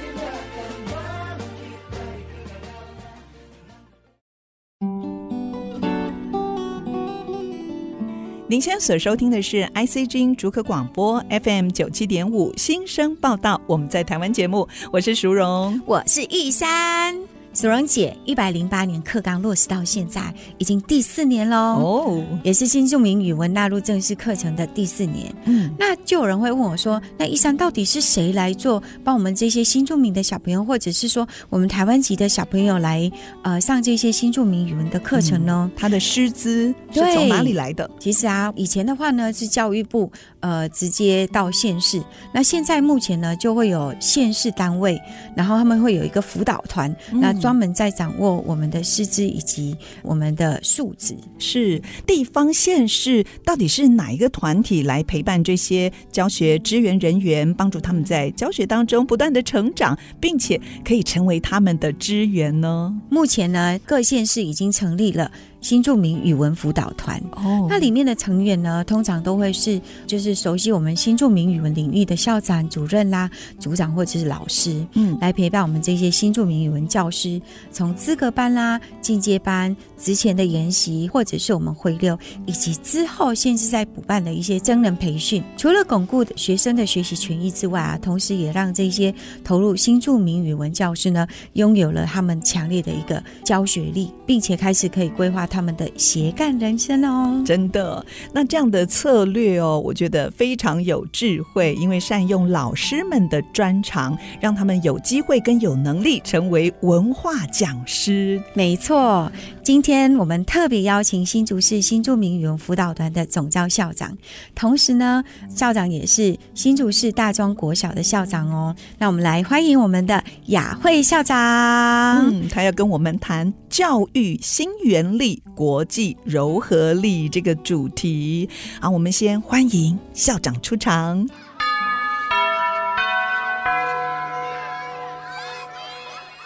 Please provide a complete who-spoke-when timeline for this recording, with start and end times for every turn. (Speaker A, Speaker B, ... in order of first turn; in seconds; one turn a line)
Speaker A: 8.5-15.8
Speaker B: 15.8-21.9
Speaker A: 21.7-22.4
Speaker B: 22.4-35.7
Speaker A: 25.5-25.8
Speaker A: 35.1-37.9
Speaker B: 36.9-51.3
Speaker A: 47.1-47.6
Speaker A: 51.4-63.0
Speaker B: 63.1-97.5
Speaker A: 67.3-67.8
Speaker A: 75.0-75.2
Speaker A: 97.5-108.5
Speaker B: 108.5-122.4
Speaker A: 122.1-131.3